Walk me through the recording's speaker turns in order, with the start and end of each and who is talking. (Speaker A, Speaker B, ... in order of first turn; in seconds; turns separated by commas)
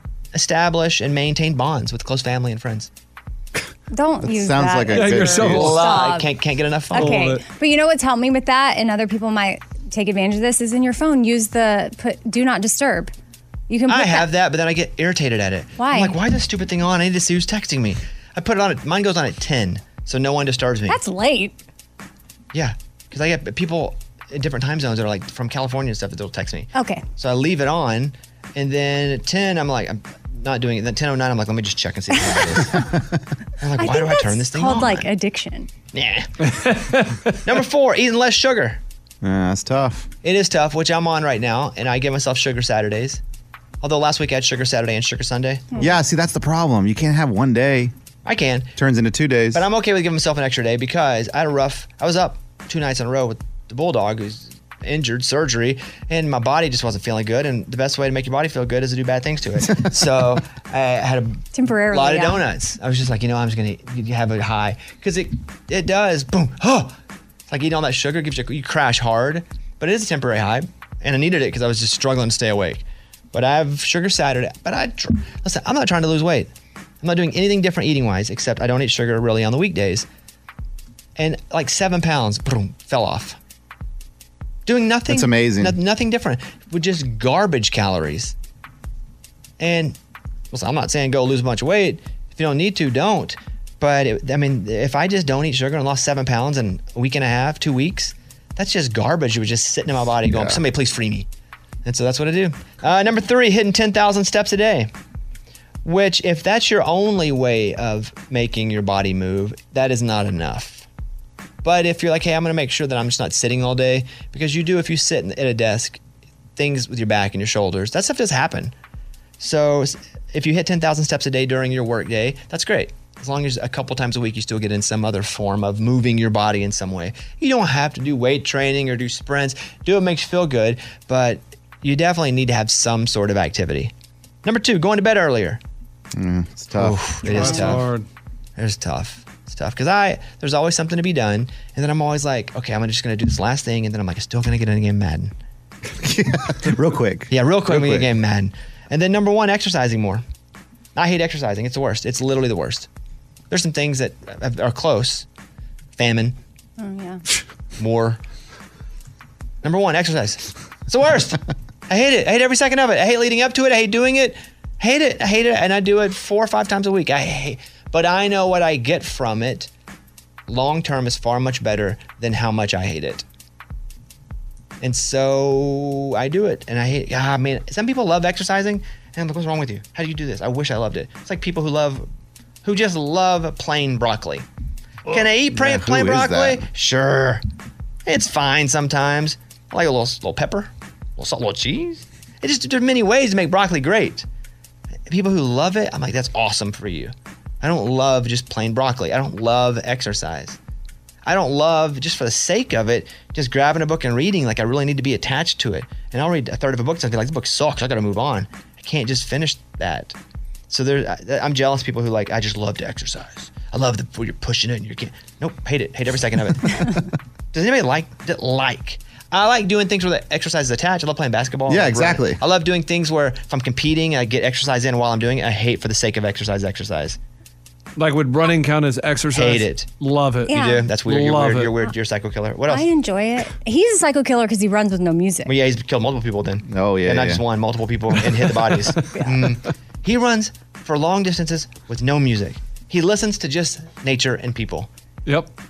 Speaker A: 0.3-2.9, Speaker B: 3.9-6.3, Speaker C: 4.2-5.7, Speaker D: 4.9-5.9, Speaker A: 5.5-7.2, Speaker B: 6.9-13.1, Speaker D: 6.9-7.4, Speaker B: 13.7-14.3, Speaker A: 13.9-21.0, Speaker B: 15.8-16.2, Speaker B: 20.9-21.6, Speaker A: 22.5-32.8, Speaker B: 26.7-27.0, Speaker B: 32.2-32.9, Speaker A: 33.6-35.0, Speaker B: 33.8-35.7, Speaker A: 35.9-36.3, Speaker D: 36.5-37.3, Speaker A: 37.4-38.8, Speaker C: 39.2-40.1, Speaker A: 40.2-43.2, Speaker A: 43.8-45.7, Speaker B: 45.7-46.0, Speaker C: 45.8-47.9, Speaker A: 48.2-48.7, Speaker C: 48.8-49.6, Speaker A: 49.5-67.0, Speaker C: 59.7-60.1, Speaker B: 61.5-62.4, Speaker A: 67.5-76.5, Speaker A: 77.0-80.0, Speaker A: 81.2-83.4, Speaker A: 84.7-88.3, Speaker C: 85.1-85.8, Speaker A: 89.6-90.0, Speaker A: 90.5-101.3, Speaker C: 100.3-100.6, Speaker A: 101.8-104.9, Speaker A: 105.8-110.9, Speaker A: 111.6-116.0, Speaker A: 116.5-118.7, Speaker A: 119.4-133.9, Speaker A: 134.4-135.6, Speaker C: 136.1-137.5, Speaker A: 136.7-137.8, Speaker D: 137.3-138.1, Speaker B: 137.3-137.6, Speaker A: 138.6-145.3, Speaker C: 146.0-148.1, Speaker A: 147.3-150.2, Speaker A: 150.9-152.9, Speaker A: 153.5-155.2, Speaker A: 155.9-156.4, Speaker B: 156.8-157.2, Speaker A: 157.8-158.2, Speaker A: 159.6-169.7, Speaker A: 170.5-173.2, Speaker A: 174.8-182.1, Speaker A: 182.6-184.4, Speaker A: 185.1-187.4, Speaker C: 185.1-186.6, Speaker A: 188.1-194.2, Speaker A: 195.1-200.6, Speaker A: 201.2-210.2, Speaker A: 210.7-216.8, Speaker A: 217.5-227.2, Speaker C: 221.7-222.4, Speaker D: 228.0-231.8, Speaker A: 229.3-229.9, Speaker B: 230.5-230.9, Speaker A: 230.5-232.8, Speaker B: 232.7-235.5, Speaker A: 235.4-244.9, Speaker C: 236.7-237.4, Speaker B: 239.1-239.4, Speaker D: 245.2-245.5